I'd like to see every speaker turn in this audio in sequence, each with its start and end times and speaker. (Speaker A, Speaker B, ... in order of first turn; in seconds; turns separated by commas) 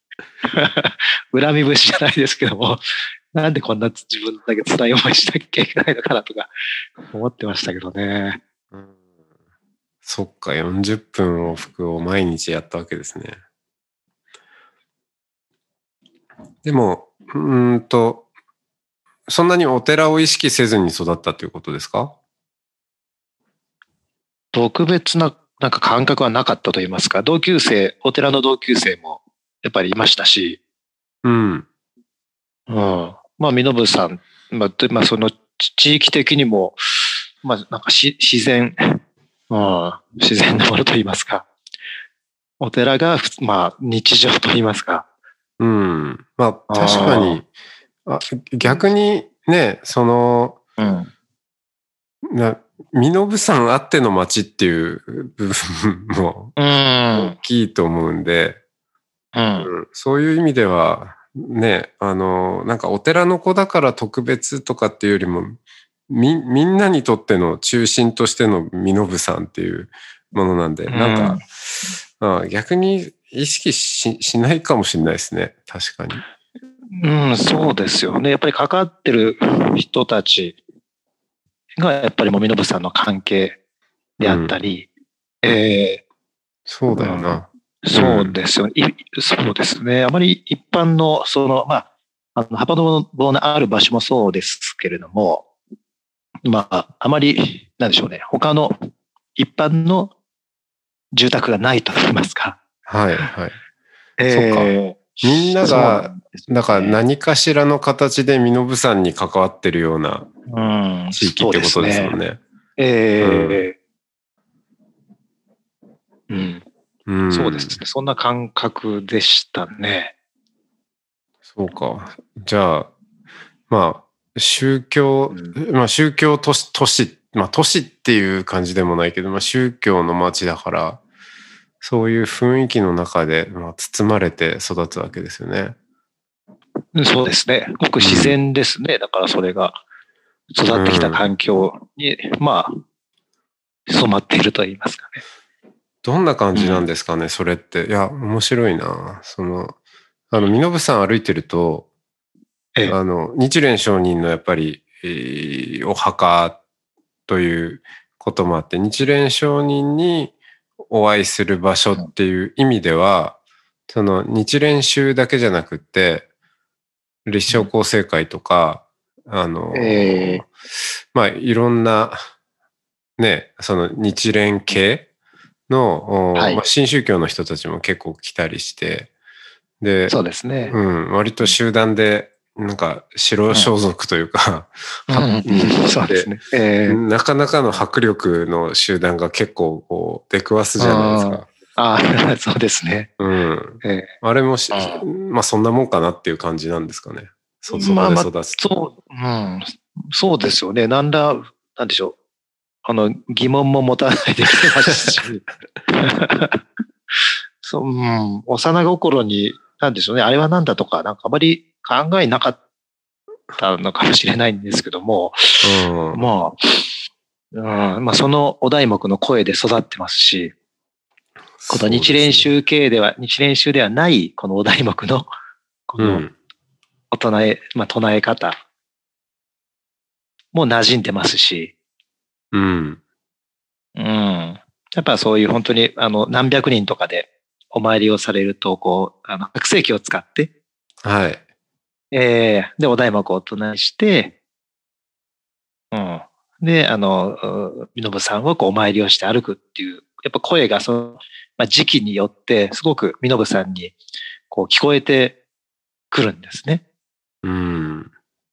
Speaker A: 0.4-2.8, Speaker A: 3.3-6.5, Speaker A: 7.1-8.4, Speaker B: 8.7-9.0, Speaker B: 10.0-13.4, Speaker B: 16.6-18.3, Speaker B: 19.3-22.1, Speaker A: 24.5-30.6, Speaker B: 31.2-31.7, Speaker A: 32.7-41.5, Speaker A: 42.6-45.0, Speaker B: 45.6-47.5, Speaker A: 46.7-47.4, Speaker B: 48.0-50.6, Speaker A: 50.8-51.1, Speaker B: 52.3-56.5, Speaker A: 56.6-57.4, Speaker B: 57.1-58.6, Speaker A: 59.4-59.7, Speaker B: 59.6-71.4, Speaker A: 70.9-71.4, Speaker B: 72.2-76.2, Speaker A: 76.9-80.6, Speaker A: 81.8-83.6, Speaker A: 84.2-84.9, Speaker B: 84.2-84.5, Speaker A: 85.4-86.0, Speaker B: 86.7-88.4, Speaker A: 87.0-95.5, Speaker A: 96.4-100.1, Speaker A: 101.1-102.6, Speaker B: 102.9-103.5, Speaker A: 104.2-107.0, Speaker B: 104.3-110.3, Speaker A: 110.5-112.2, Speaker B: 111.1-112.4, Speaker A: 112.8-113.8, Speaker B: 113.2-113.6, Speaker A: 116.3-116.6, Speaker B: 117.1-117.8, Speaker A: 117.3-120.1, Speaker B: 121.5-122.9, Speaker B: 123.7-131.0, Speaker B: 131.8-135.8, Speaker A: 136.9-139.8, Speaker B: 138.0-138.4, Speaker A: 140.5-142.8, Speaker B: 140.7-141.3, Speaker A: 143.9-145.2, Speaker B: 146.0-149.8, Speaker A: 146.5-146.8, Speaker B: 150.3-151.9, Speaker B: 152.9-156.6, Speaker B: 157.3-160.3, Speaker B: 160.9-163.4, Speaker B: 163.9-166.3, Speaker B: 167.2-170.5, Speaker A: 169.7-170.4, Speaker B: 171.1-172.2, Speaker B: 173.2-175.1, Speaker B: 175.7-179.1, Speaker A: 176.3-176.6, Speaker B: 179.8-186.3, Speaker A: 180.1-180.8, Speaker A: 185.1-187.0, Speaker B: 186.9-191.5, Speaker A: 190.8-193.1, Speaker B: 193.2-198.6, Speaker A: 193.8-194.1, Speaker A: 194.7-195.1, Speaker A: 197.7-202.2, Speaker A: 202.8-206.6, Speaker A: 207.1-212.6, Speaker A: 213.6-216.9, Speaker B: 215.6-216.2, Speaker A: 217.5-220.5, Speaker B: 221.6-222.5, Speaker A: 221.7-225.3, Speaker A: 225.9-226.2, Speaker B: 226.0-226.3, Speaker A: 227.1-228.6, Speaker A: 230.5-231.7, Speaker B: 232.5-233.0, Speaker A: 234.0-240.5, Speaker B: 241.0-241.4, Speaker A: 242.1-244.3, Speaker A: 245.9-253.9, Speaker A: 254.5-255.4, Speaker A: 256.1-256.8, Speaker B: 257.4-258.1